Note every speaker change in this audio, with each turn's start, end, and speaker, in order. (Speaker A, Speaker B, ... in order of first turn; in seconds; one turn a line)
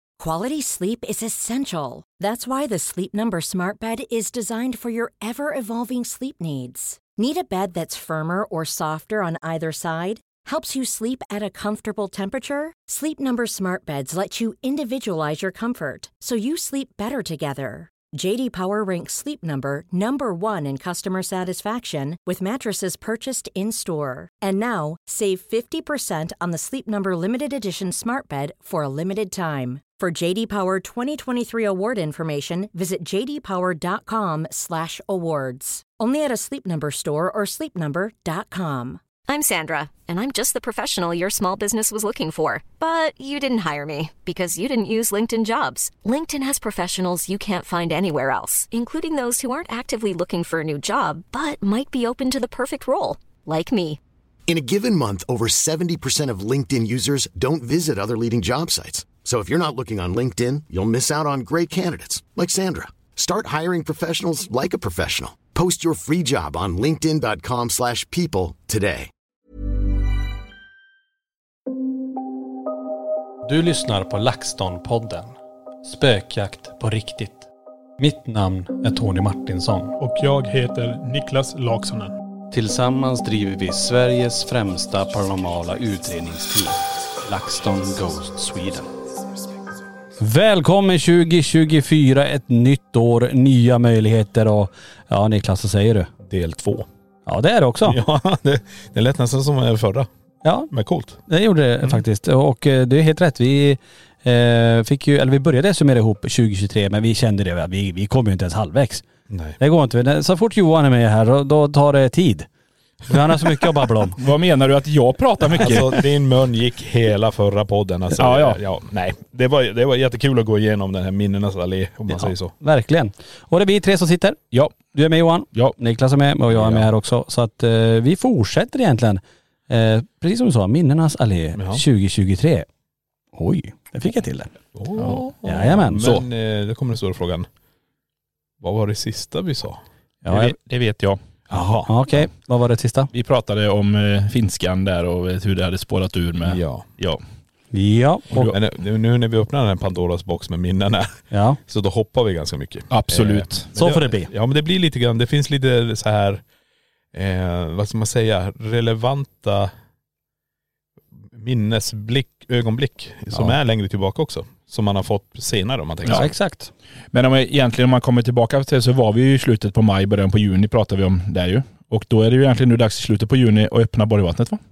Speaker A: 0.2-39.0
Speaker B: 39.3-54.0
Speaker C: 54.5-69.1
Speaker D: 73.5-80.0
Speaker E: 80.0-82.1
Speaker D: 82.5-88.9
Speaker D: 90.2-96.1
Speaker E: 96.2-96.9
Speaker D: 97.3-98.0
Speaker E: 97.8-100.1
Speaker D: 100.4-100.7
Speaker E: 100.7-101.2
Speaker D: 101.3-109.0
Speaker E: 109.3-109.6
Speaker D: 109.6-112.5
Speaker D: 113.1-114.2
Speaker F: 114.2-116.0
Speaker E: 115.5-122.5
Speaker F: 118.2-118.6
Speaker D: 122.1-132.7
Speaker E: 126.5-126.9
Speaker E: 131.6-131.8
Speaker D: 133.3-134.5
Speaker E: 134.7-137.5
Speaker D: 135.4-136.0
Speaker E: 138.6-139.8
Speaker D: 140.2-140.6
Speaker F: 140.3-141.2
Speaker E: 141.5-141.9
Speaker D: 141.5-143.1
Speaker F: 143.1-147.2
Speaker E: 146.4-146.9
Speaker D: 147.7-148.4
Speaker E: 148.3-156.4
Speaker D: 151.3-151.6
Speaker F: 152.9-153.7
Speaker D: 153.8-154.3
Speaker E: 157.1-159.7
Speaker E: 161.3-166.3
Speaker D: 166.1-166.7
Speaker F: 167.1-174.6